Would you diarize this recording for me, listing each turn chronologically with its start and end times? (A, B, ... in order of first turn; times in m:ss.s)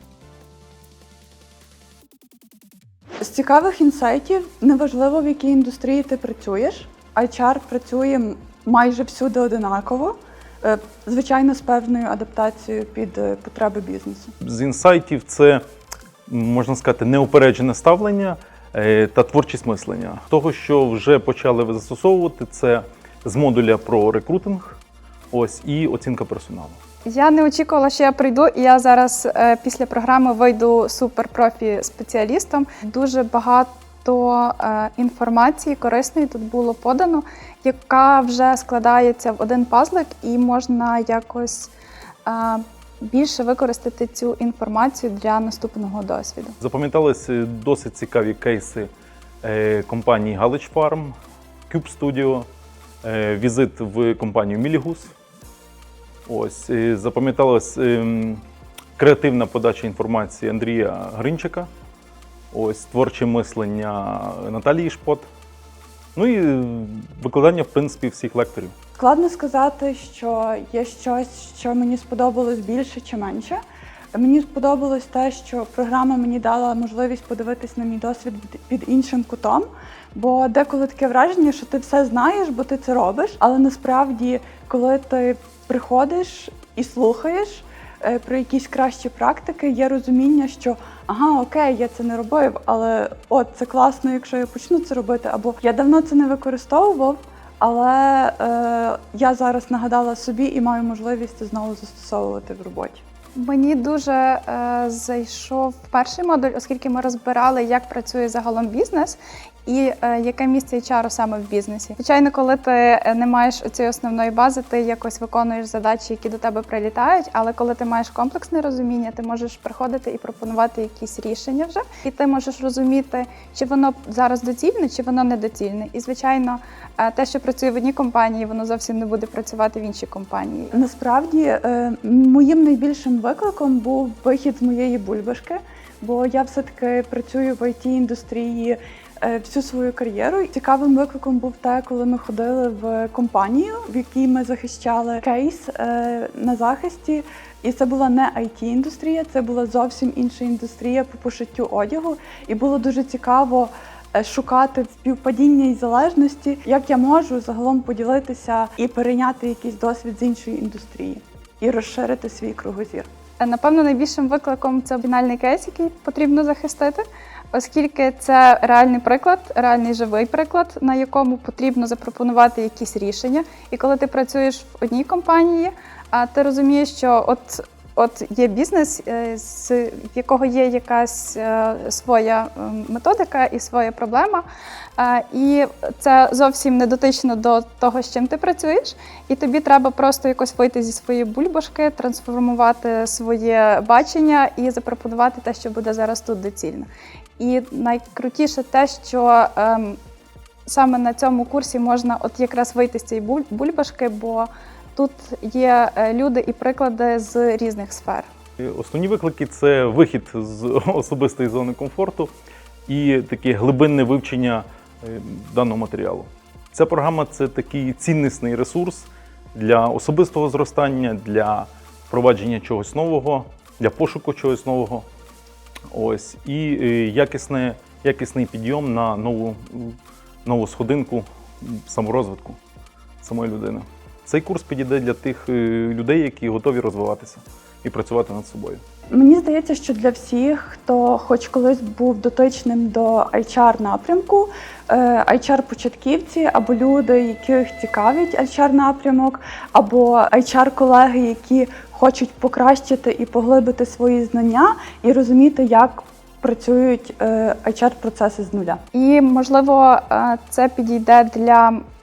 0:03.2-0:14.3 A
0:14.4-0:15.6 B
0:16.3-0:24.8 B
0:25.3-0:26.8 B
0:27.1-0:41.7 C
0:42.3-0:46.6 C
0:46.6-0:48.9 B
0:49.4-0:51.2 B
0:51.7-0:52.5 B
0:53.0-0:55.1 B
0:56.3-0:58.4 B
0:59.0-1:01.7 B
1:02.5-1:05.3 B
1:06.2-1:08.7 B
1:09.0-1:13.6 A
1:14.1-1:43.0 A
1:43.4-2:10.7 C
2:10.7-2:43.1 A
2:43.4-3:04.4 C
3:05.0-3:20.0 C
3:20.7-3:28.3 C
3:28.6-3:32.3 B
3:32.9-3:45.1 B
3:45.9-3:52.6 B
3:53.2-3:58.8 B
3:59.1-4:18.8 A
4:18.9-4:21.8 C